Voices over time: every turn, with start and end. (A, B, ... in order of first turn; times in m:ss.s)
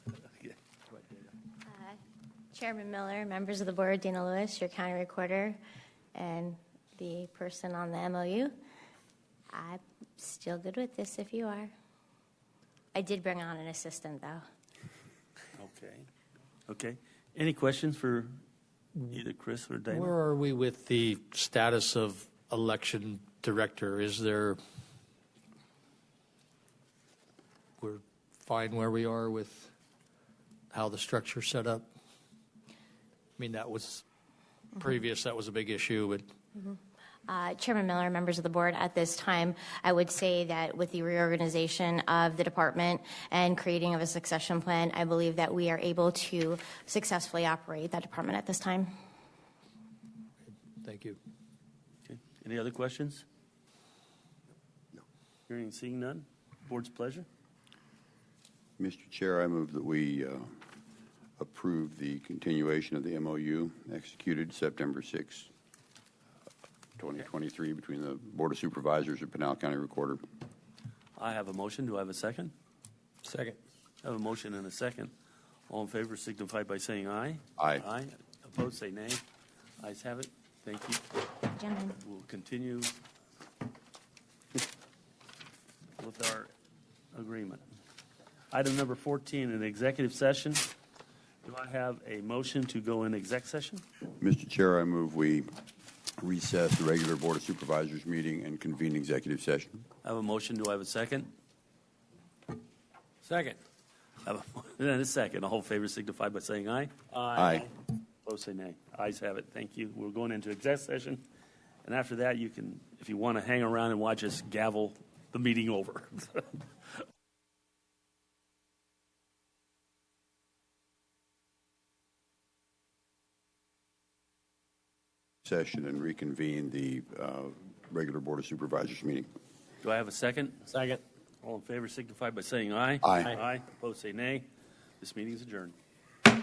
0:01.7-0:02.0 A
0:02.5-0:05.6 A
0:06.1-0:08.5 A
0:09.5-0:11.7 A
0:12.9-0:14.4 A
0:15.5-0:16.1 B
0:16.7-0:18.4 B
0:19.1-0:20.1 B
0:19.9-0:24.6 C
0:27.8-0:29.7 C
0:30.7-0:31.9 C
0:33.4-0:34.0 C
0:34.8-0:36.2 C
0:36.6-0:48.9 A
0:50.8-0:51.2 C
0:52.0-0:53.2 B
0:55.5-0:57.3 B
0:58.8-1:00.5 D
1:01.4-1:05.5 D
1:07.0-1:10.2 D
1:11.2-1:12.5 B
1:14.0-1:15.1 B
1:15.7-1:19.2 B
1:17.6-1:17.8 D
1:19.8-1:21.0 B
1:21.5-1:22.0 A
1:22.0-1:23.0 B
1:26.0-1:26.5 B
1:27.1-1:27.6 B
1:28.5-1:30.7 B
1:31.4-1:33.8 B
1:34.2-1:35.5 D
1:36.2-1:39.8 D
1:40.0-1:41.3 B
1:43.2-1:43.5 B
1:44.2-1:47.7 B
1:47.3-1:47.7 D
1:48.2-1:51.2 B
1:51.8-1:56.6 B
2:05.4-2:09.3 D
2:09.8-2:14.5 B
2:13.0-2:13.3 D
2:15.0-2:15.7 B